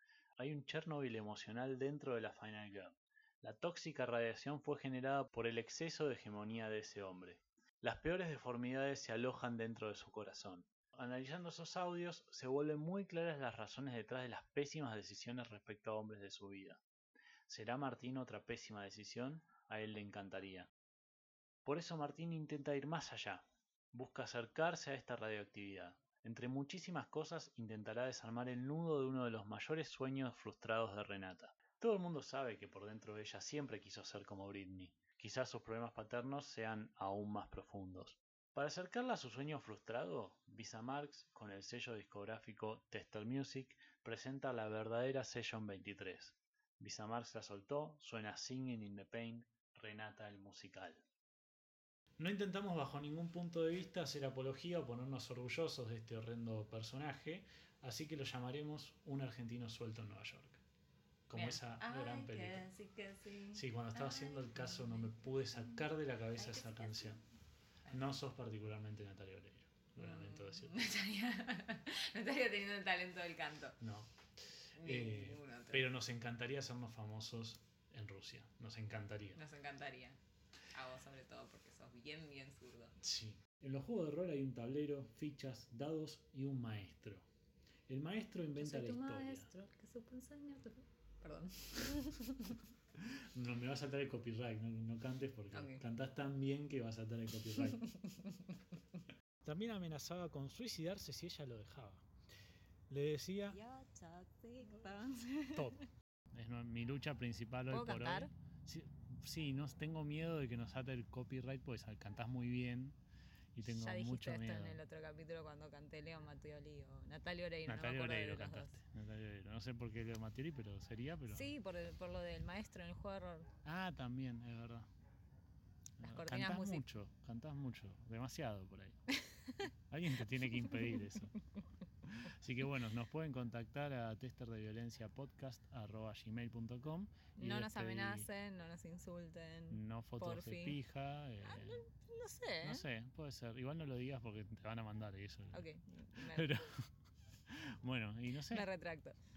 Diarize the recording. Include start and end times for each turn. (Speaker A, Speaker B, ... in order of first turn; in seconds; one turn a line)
Speaker A: 0.4-16.8
Speaker A: 17.5-20.7
Speaker A: 21.6-51.0
Speaker A: 52.2-60.6
Speaker A: 61.3-62.7
Speaker B: 61.3-67.2
Speaker A: 63.5-67.2
Speaker A: 67.9-70.8
Speaker B: 70.0-73.8
Speaker A: 73.8-74.1
Speaker A: 74.7-79.4
Speaker B: 74.8-75.9
Speaker B: 79.3-80.2
Speaker B: 80.7-83.0
Speaker A: 83.0-87.3
Speaker A: 87.9-89.5
Speaker B: 88.6-92.6
Speaker A: 93.0-97.8
Speaker B: 95.5-95.8
Speaker B: 97.5-98.6
Speaker A: 99.4-102.0
Speaker A: 102.9-103.6
Speaker B: 103.5-105.8
Speaker A: 105.5-105.8
Speaker A: 106.3-113.0
Speaker B: 107.7-108.3
Speaker A: 113.5-114.8
Speaker B: 113.6-118.8
Speaker A: 117.7-121.5
Speaker B: 121.3-123.5
Speaker A: 123.6-124.9
Speaker A: 126.0-128.9
Speaker B: 126.0-126.8
Speaker B: 129.3-129.7
Speaker A: 129.6-131.3
Speaker B: 130.2-131.2
Speaker A: 132.1-138.3
Speaker B: 137.4-140.8
Speaker A: 139.7-141.8
Speaker B: 141.4-142.8
Speaker A: 142.6-146.9
Speaker B: 145.5-146.6
Speaker A: 147.5-148.7
Speaker B: 148.3-149.2